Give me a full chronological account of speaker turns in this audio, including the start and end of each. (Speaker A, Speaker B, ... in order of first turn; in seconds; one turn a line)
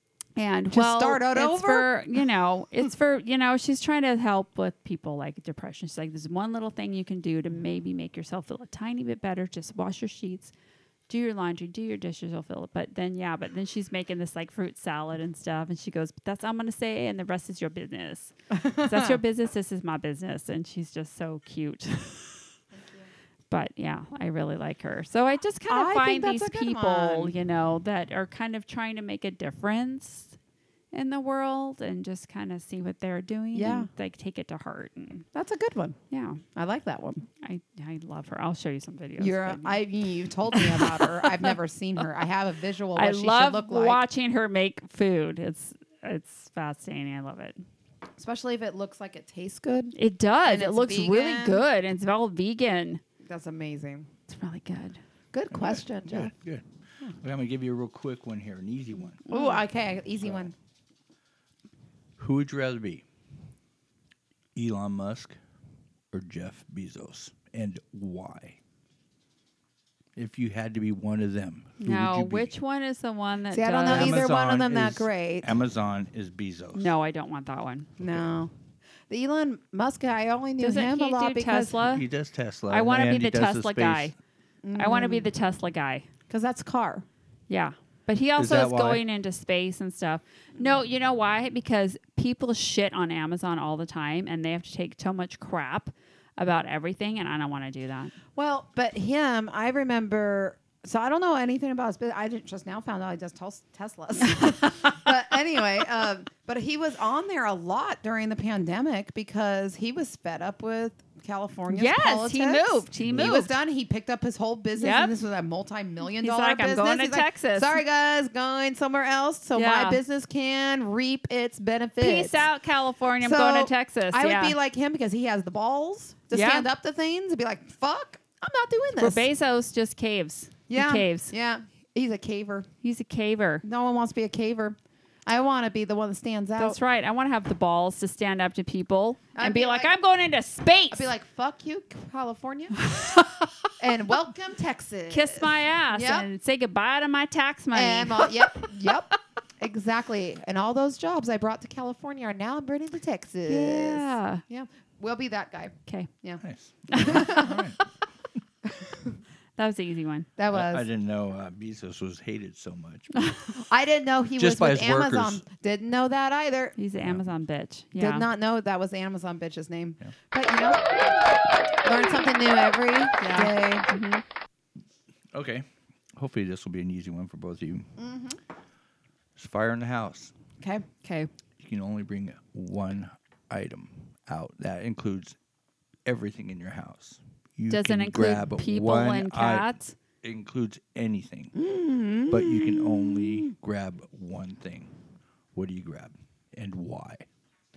Speaker A: 0.4-10.5
Speaker B: 0.7-1.9
Speaker A: 11.1-22.5
Speaker B: 18.5-19.2
Speaker A: 23.5-30.4
Speaker B: 25.7-27.3
Speaker A: 30.9-35.3
Speaker B: 33.5-33.9
Speaker B: 35.3-36.0
Speaker A: 36.1-36.4
Speaker B: 36.5-37.3
Speaker A: 37.4-39.8
Speaker B: 39.2-44.0
Speaker A: 40.5-41.5
Speaker A: 43.0-47.6
Speaker B: 48.2-51.6
Speaker A: 50.0-53.0
Speaker B: 53.2-54.1
Speaker A: 54.3-55.0
Speaker B: 55.3-56.3
Speaker C: 55.5-56.7
Speaker C: 57.2-59.2
Speaker A: 59.3-59.6
Speaker B: 59.3-60.5
Speaker C: 62.2-63.0
Speaker C: 64.5-65.4
Speaker C: 66.1-68.6
Speaker C: 70.2-72.5
Speaker A: 71.8-74.2
Speaker B: 73.5-75.5
Speaker C: 73.9-76.9
Speaker A: 76.7-77.9
Speaker C: 78.0-78.3
Speaker B: 78.0-78.5
Speaker B: 79.1-81.8
Speaker A: 80.6-82.1
Speaker C: 81.8-84.1
Speaker A: 82.7-84.2
Speaker B: 84.6-85.3
Speaker A: 84.8-86.1
Speaker B: 86.3-87.1
Speaker A: 87.5-98.1
Speaker C: 88.4-89.0
Speaker B: 98.3-122.5
Speaker A: 104.3-105.0
Speaker A: 111.7-113.6
Speaker C: 113.0-113.4
Speaker A: 114.8-115.2
Speaker A: 116.0-117.8
Speaker A: 119.5-120.0
Speaker A: 122.0-124.6
Speaker B: 123.2-129.2
Speaker A: 126.3-126.7
Speaker A: 129.0-131.3
Speaker B: 130.7-132.7
Speaker A: 132.8-133.6
Speaker B: 133.6-136.8
Speaker A: 136.6-141.1
Speaker B: 139.3-139.9
Speaker B: 140.9-142.9
Speaker A: 142.8-143.7
Speaker B: 143.8-146.3
Speaker A: 145.1-148.9
Speaker B: 147.7-156.4
Speaker A: 153.5-154.4
Speaker C: 156.4-157.8
Speaker A: 156.9-157.8
Speaker B: 157.0-157.5
Speaker B: 158.8-159.1
Speaker A: 159.6-160.3
Speaker B: 160.4-160.9
Speaker C: 160.5-163.1
Speaker A: 163.2-163.5
Speaker B: 163.6-166.8
Speaker C: 164.4-165.4
Speaker A: 166.8-168.3
Speaker B: 168.0-170.8
Speaker B: 171.8-173.9
Speaker A: 173.2-174.2
Speaker C: 175.3-177.9
Speaker B: 178.0-178.4
Speaker C: 179.4-180.3
Speaker B: 180.6-180.9
Speaker A: 181.0-181.3
Speaker C: 181.6-185.4
Speaker C: 186.1-191.5
Speaker A: 187.7-189.9
Speaker B: 191.6-193.5
Speaker C: 192.3-194.9
Speaker C: 195.5-197.3